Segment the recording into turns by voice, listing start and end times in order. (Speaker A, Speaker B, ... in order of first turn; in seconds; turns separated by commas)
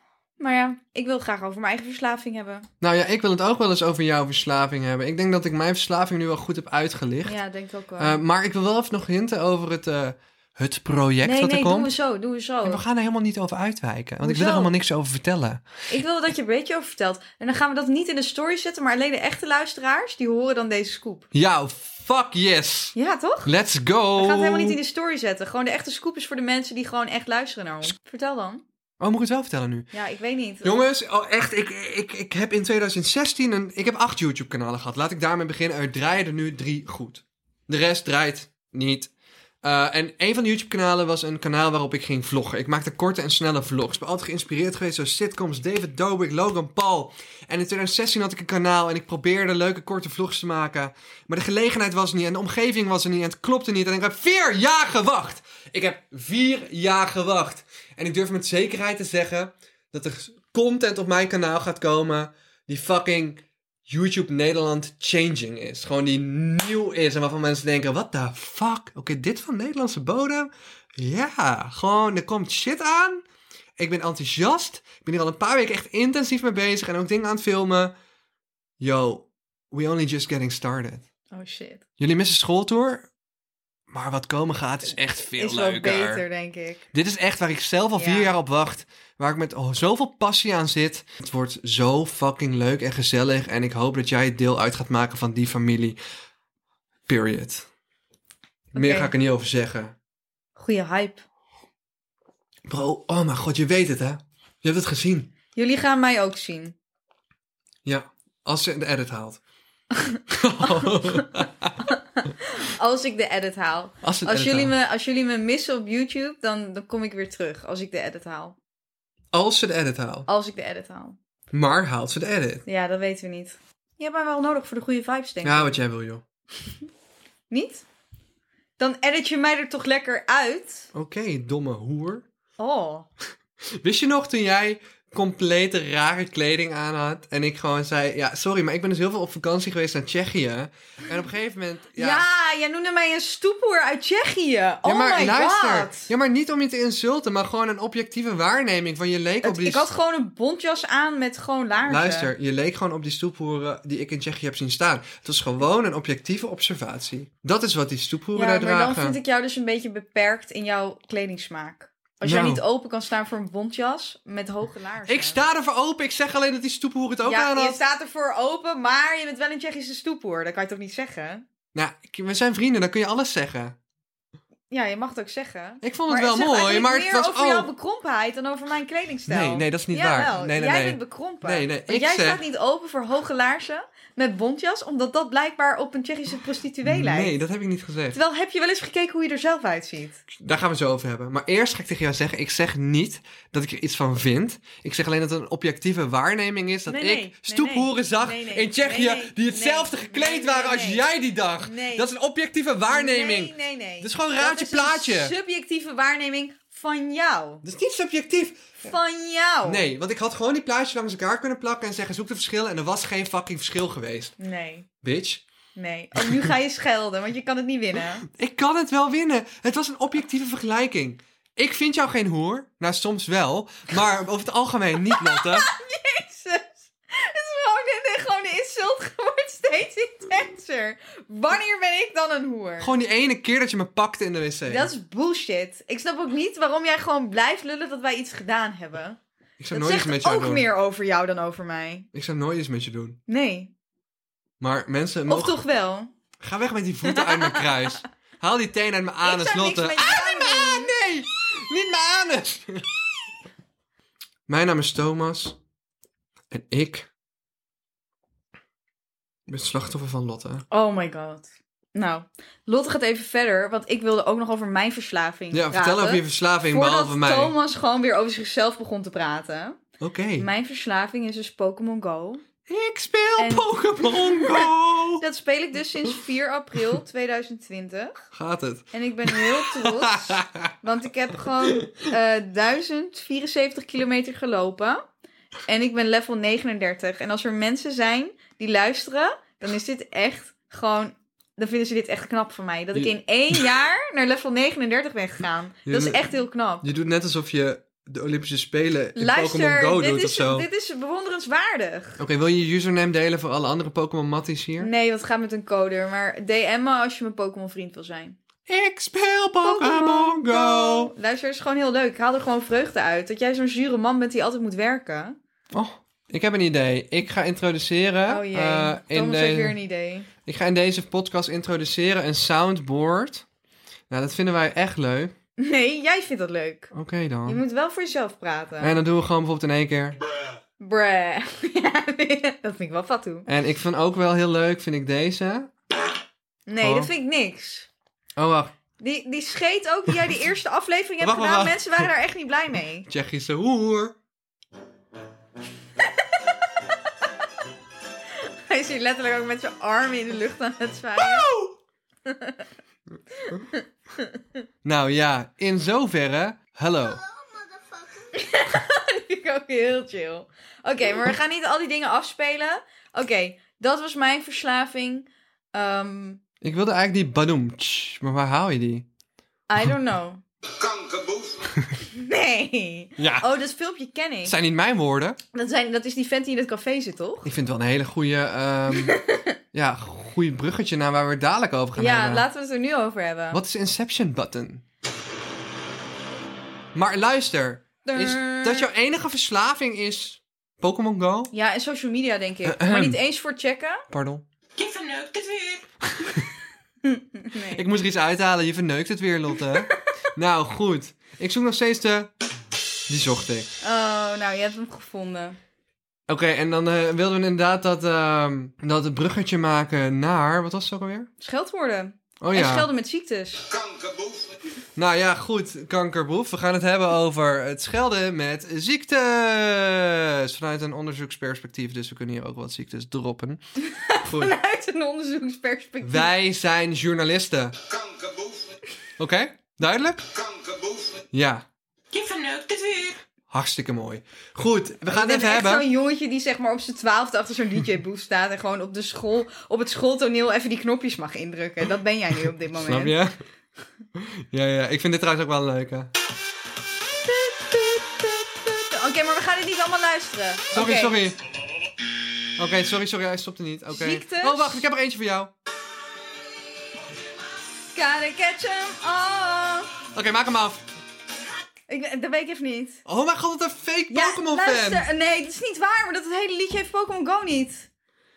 Speaker A: 0.4-2.7, Speaker B: 2.8-7.4, Speaker A: 7.2-8.2, Speaker B: 8.0-11.9, Speaker A: 11.2-12.8, Speaker B: 12.7-15.7, Speaker A: 14.2-14.7, Speaker A: 15.9-21.3, Speaker B: 21.3-24.8, Speaker A: 23.0-23.5, Speaker A: 24.1-28.6, Speaker B: 29.0-29.9, Speaker A: 29.9-30.8, Speaker B: 30.6-39.1, Speaker B: 39.6-73.2, Speaker B: 73.8-77.9, Speaker B: 78.8-81.0, Speaker A: 81.3-81.8, Speaker B: 82.0-83.1, Speaker B: 83.9-86.2, Speaker A: 85.3-86.8, Speaker B: 86.9-96.0, Speaker A: 88.0-88.3, Speaker B: 97.1-97.7, Speaker B: 98.7-100.0, Speaker A: 98.8-99.1, Speaker A: 100.6-101.2, Speaker B: 102.7-105.3, Speaker A: 105.5-106.8, Speaker B: 107.8-109.4, Speaker A: 109.9-118.6, Speaker B: 110.3-111.8, Speaker B: 114.0-114.7, Speaker B: 119.3-120.3, Speaker A: 120.3-121.2, Speaker B: 121.5-122.6, Speaker A: 122.7-125.8, Speaker B: 125.4-126.2, Speaker A: 127.5-127.8, Speaker A: 128.8-130.9, Speaker B: 130.9-132.2, Speaker A: 132.6-133.1, Speaker B: 133.8-142.2, Speaker A: 142.0-146.1, Speaker B: 144.8-149.9, Speaker A: 149.4-152.3, Speaker B: 151.8-159.2, Speaker A: 158.3-165.4, Speaker B: 162.2-162.6, Speaker B: 165.1-167.8, Speaker A: 167.2-171.4, Speaker B: 171.7-173.8, Speaker A: 174.7-187.4, Speaker B: 175.8-177.7, Speaker B: 179.3-182.4, Speaker B: 186.8-188.2, Speaker A: 188.1-190.2, Speaker B: 190.3-205.3, Speaker A: 196.9-201.0, Speaker A: 201.6-202.1, Speaker A: 202.9-207.6, Speaker B: 207.6-208.7, Speaker A: 208.8-209.8, Speaker B: 209.7-214.4, Speaker A: 214.4-214.9, Speaker B: 215.0-215.4, Speaker A: 215.8-218.3, Speaker B: 216.2-216.5, Speaker B: 218.3-225.7, Speaker A: 225.0-232.9, Speaker B: 232.8-234.9, Speaker A: 234.7-239.2, Speaker B: 239.6-240.7, Speaker A: 239.7-242.1, Speaker B: 242.1-243.2, Speaker A: 243.3-243.7, Speaker B: 244.6-245.6, Speaker A: 245.3-246.1, Speaker B: 246.4-253.0, Speaker A: 247.1-247.8, Speaker A: 249.2-250.9, Speaker B: 254.5-255.6, Speaker B: 256.5-257.1, Speaker B: 259.5-260.6, Speaker A: 260.7-269.8, Speaker B: 265.5-267.6, Speaker B: 270.0-270.5, Speaker A: 270.4-272.4, Speaker B: 272.7-275.2, Speaker A: 273.4-278.2, Speaker B: 278.3-280.7, Speaker A: 278.9-285.0, Speaker B: 281.6-281.9, Speaker A: 285.7-296.9, Speaker B: 292.9-293.7, Speaker B: 295.9-296.3, Speaker B: 296.8-300.7, Speaker A: 299.2-302.2, Speaker B: 302.2-304.9, Speaker A: 304.8-308.4, Speaker B: 308.7-311.1, Speaker A: 309.6-315.4, Speaker B: 315.7-319.8, Speaker A: 318.3-320.3, Speaker B: 320.5-323.4, Speaker B: 324.1-325.3, Speaker A: 325.6-326.9, Speaker B: 326.9-327.6, Speaker A: 327.5-329.0, Speaker B: 328.8-330.2, Speaker A: 330.8-333.5, Speaker B: 333.5-335.7, Speaker A: 336.7-337.9, Speaker B: 336.8-337.1, Speaker B: 338.4-338.7, Speaker A: 339.0-343.1, Speaker B: 341.2-342.1, Speaker B: 343.1-344.2, Speaker A: 348.4-351.5, Speaker B: 351.2-351.8, Speaker A: 352.3-352.6, Speaker A: 353.4-354.3, Speaker B: 354.8-357.2, Speaker A: 358.3-366.4, Speaker B: 366.6-369.1, Speaker A: 369.7-370.4, Speaker A: 372.1-374.6, Speaker B: 373.2-373.5, Speaker B: 374.4-375.4, Speaker A: 375.5-377.5, Speaker B: 377.4-379.2, Speaker A: 378.9-379.6, Speaker B: 379.7-382.5, Speaker A: 382.0-383.6, Speaker B: 383.5-384.8, Speaker B: 386.9-391.5, Speaker A: 388.1-388.9, Speaker A: 391.5-394.1, Speaker B: 392.6-393.2, Speaker B: 394.1-394.4, Speaker C: 394.8-395.8, Speaker B: 396.1-396.4, Speaker A: 397.0-397.9, Speaker B: 397.7-402.3, Speaker B: 403.1-403.7, Speaker A: 403.8-405.6, Speaker B: 406.3-411.3, Speaker A: 411.4-413.7, Speaker B: 412.4-412.9, Speaker B: 415.0-423.6, Speaker A: 423.8-426.3, Speaker B: 424.2-424.5, Speaker B: 426.0-427.9, Speaker B: 429.2-430.3, Speaker B: 431.2-431.6, Speaker C: 432.1-433.1, Speaker B: 433.5-435.9, Speaker A: 435.1-443.1, Speaker B: 442.8-443.4, Speaker B: 444.2-446.1, Speaker A: 447.2-451.3, Speaker B: 450.7-451.4, Speaker B: 452.6-455.5, Speaker A: 453.9-454.8, Speaker A: 457.9-459.9, Speaker B: 460.1-460.9, Speaker A: 461.9-463.0, Speaker B: 463.1-465.1, Speaker A: 464.1-467.9